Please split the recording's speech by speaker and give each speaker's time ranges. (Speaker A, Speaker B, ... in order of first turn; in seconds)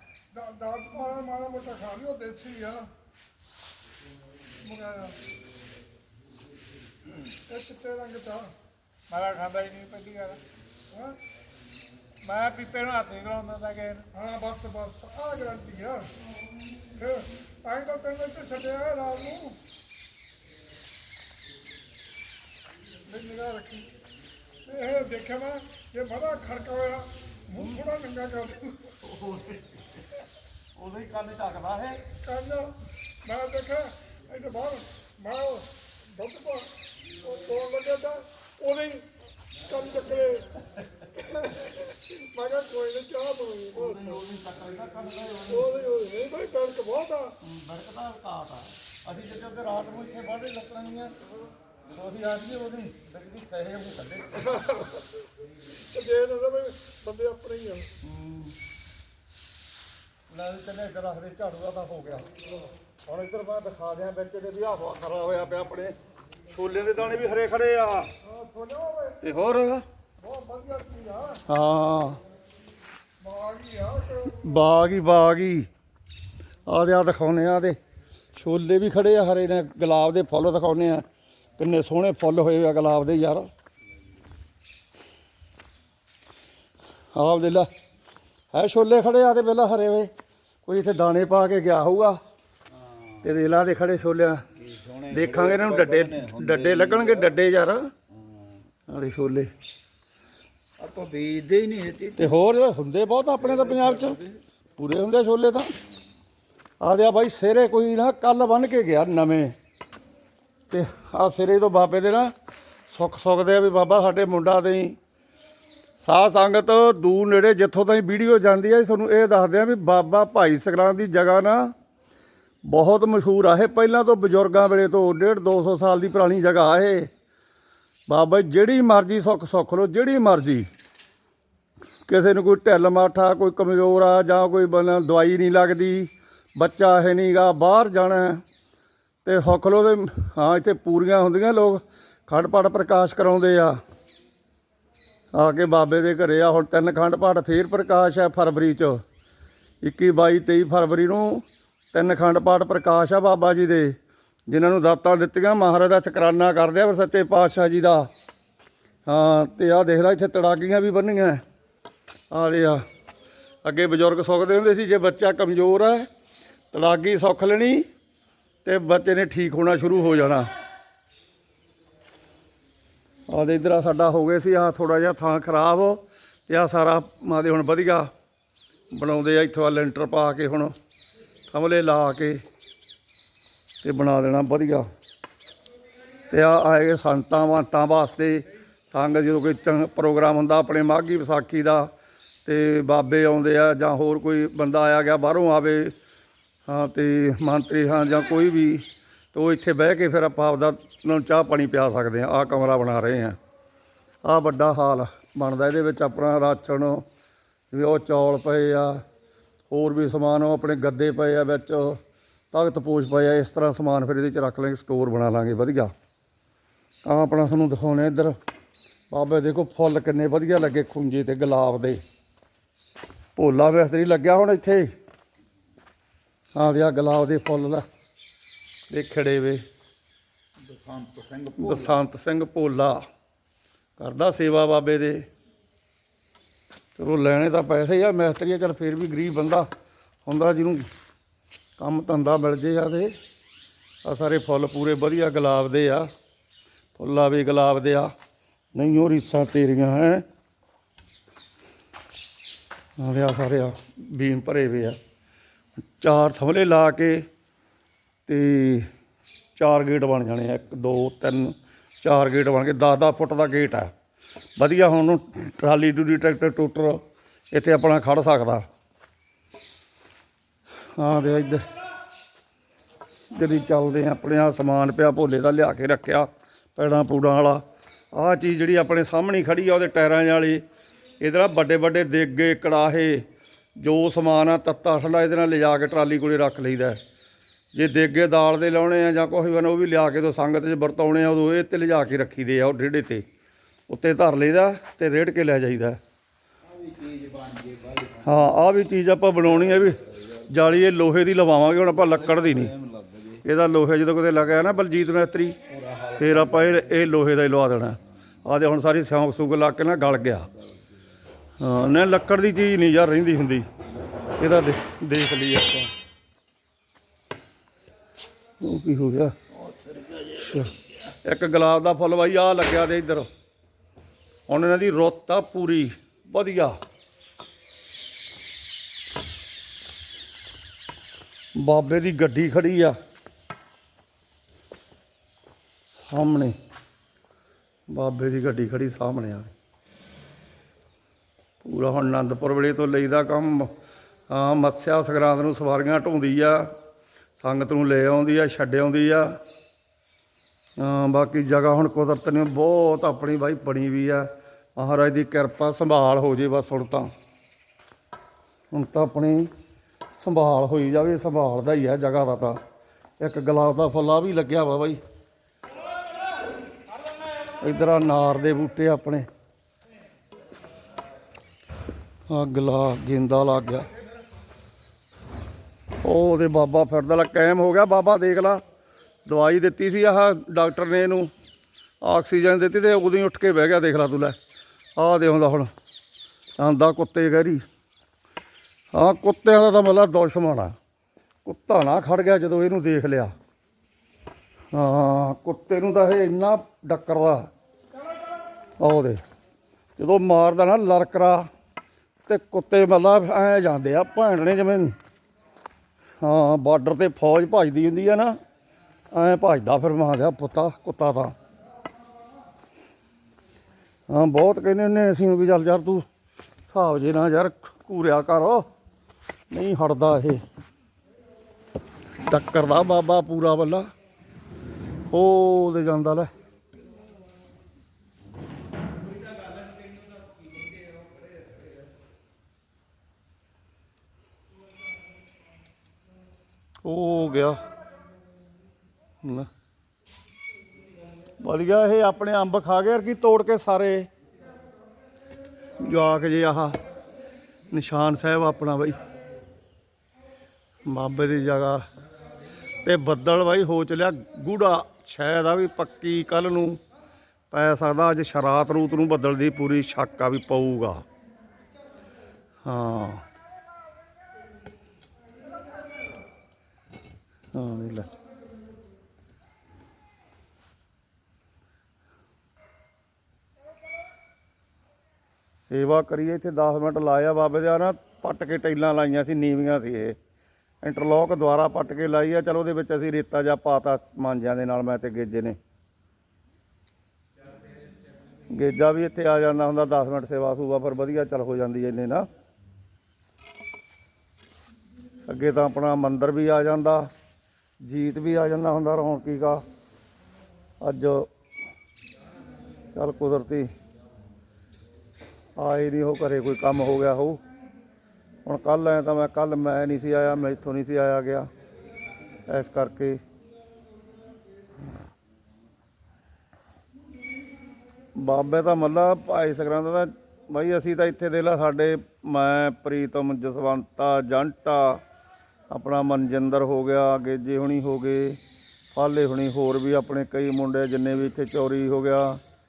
Speaker A: 0.3-2.9, 4.6-5.2, 7.5-8.5, 10.9-11.2, 14.1-16.1, 16.9-19.6, 23.1-23.9, 24.6-28.9, 32.2-36.7, 37.2-39.1, 39.6-40.5, 41.1-44.2, 45.5-47.4, 54.5-55.2, 55.8-57.9, 68.2-69.2, 70.2-71.4, 73.2-74.6
Speaker B: 9.1-10.4, 12.2-14.1
Speaker C: 27.5-27.8, 29.0-29.8, 30.8-32.1, 43.7-45.8, 47.4-51.1, 51.9-54.5, 58.0-58.5, 60.3-62.3, 63.0-66.0, 66.5-68.1, 69.2-69.8, 71.5-72.2, 74.3-75.7, 76.7-77.8, 78.3-81.0, 81.6-83.5, 87.1-87.7, 88.5-90.1, 90.6-92.2, 93.2-94.4, 95.1-97.9, 98.9-99.5, 102.2-104.2, 104.8-105.7, 106.8-109.5, 110.7-112.3, 112.9-115.0, 116.0-121.7, 122.6-127.1, 128.1-130.7, 132.1-138.4, 139.2-143.8, 145.3-149.0, 149.8-154.0, 154.5-158.1, 159.1-161.4, 162.3-162.8, 163.6-166.1, 166.7-167.8, 168.6-170.5, 173.3-178.1, 178.9-180.7, 181.5-182.4, 183.8-184.9, 186.3-191.9, 192.4-195.9, 196.7-203.4, 204.2-207.0, 207.7-209.0, 209.7-212.0, 212.5-215.9, 217.0-218.3, 219.1-222.0, 223.3-224.9, 226.5-227.8, 228.9-229.6, 231.6-233.0, 234.0-235.2, 237.0-239.7, 240.2-240.9, 241.8-243.1, 244.0-246.1, 246.9-248.1, 248.7-250.2, 253.0-255.0, 256.0-257.2, 258.3-258.9, 259.6-263.9, 264.6-268.7, 270.9-271.6, 273.3-280.6, 281.2-283.2, 283.8-287.0, 287.7-293.2, 293.9-296.0, 298.2-302.7, 303.4-305.6, 306.2-310.5, 311.6-313.6, 314.4-315.9, 318.6-319.4, 320.4-320.7, 321.2-323.3, 324.5-326.8, 331.6-333.0, 335.9-336.6, 337.9-339.5, 341.6-343.7, 344.3-346.7, 347.4-349.4, 350.8-357.1, 358.7-359.5, 360.1-362.6, 363.2-365.0, 367.6-369.3, 372.3-373.9, 376.0-378.6, 379.2-381.3, 382.0-384.4, 384.9-385.7, 386.6-387.7, 388.9-390.8, 391.4-393.3, 394.7-397.5, 398.8-399.2, 400.0-401.5, 402.2-404.9, 406.2-408.4, 409.1-411.3, 414.1-416.1, 416.7-418.6, 419.5-420.4, 422.2-423.9, 425.1-426.3, 436.8-437.6, 439.2-439.5, 441.4-444.1, 445.8-446.8, 447.7-449.0, 450.8-451.9, 452.8-456.8, 457.5-461.0, 462.6-463.2, 467.5-468.1, 475.6-480.1, 480.8-485.6, 488.5-492.3, 495.3-497.1, 497.8-499.6, 500.8-501.3, 502.9-503.7, 505.6-507.4, 508.4-511.5, 512.5-513.2, 518.1-525.0, 525.7-528.4, 528.9-532.4
Speaker D: 92.7-93.4, 94.5-97.3, 98.1-98.6, 100.8-102.4, 103.4-104.4, 230.6-232.0, 296.6-298.6, 299.5-300.6, 302.0-303.4, 305.7-306.9, 319.5-321.1